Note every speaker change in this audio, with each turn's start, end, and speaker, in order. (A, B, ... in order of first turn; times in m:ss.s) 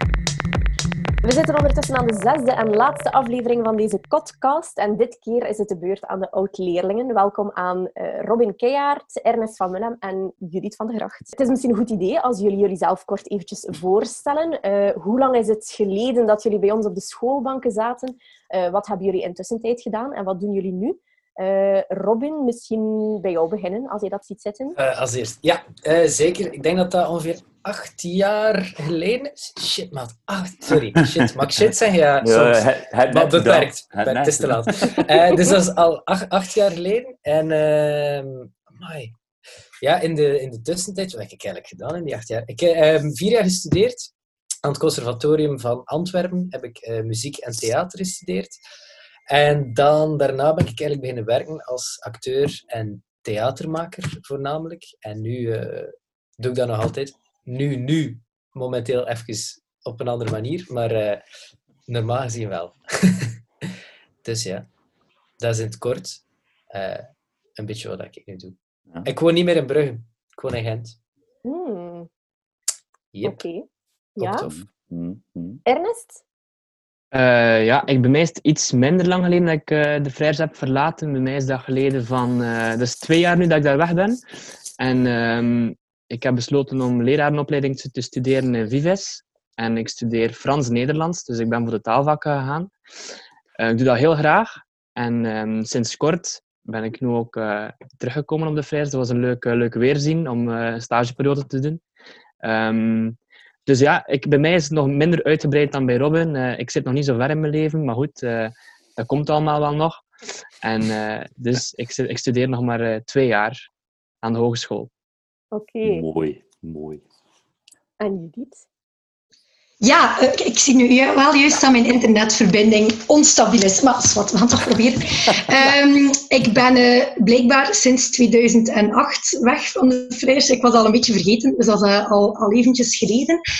0:01.2-0:24.8 A
0:24.8-0:39.1 B
0:32.2-0:35.1 C
0:39.8-0:44.1 B
0:44.6-0:48.6 B
0:49.3-1:01.2 B
1:01.9-1:03.7 B
1:04.2-1:04.7 B
1:05.4-1:07.1 B
1:07.6-1:11.0 B
1:11.4-1:12.1 A
1:13.1-1:13.4 B
1:13.2-1:13.6 A
1:14.2-1:14.4 A
1:14.2-1:15.6 C
1:15.6-1:16.2 A
1:17.1-1:24.2 D
1:24.8-1:32.7 D
1:33.6-1:41.8 D
1:42.4-1:50.0 D
1:50.6-1:53.7 D
1:54.2-1:54.9 D
1:55.5-1:56.0 A
1:55.8-1:57.0 C
1:58.0-1:58.6 A
1:59.8-2:13.4 E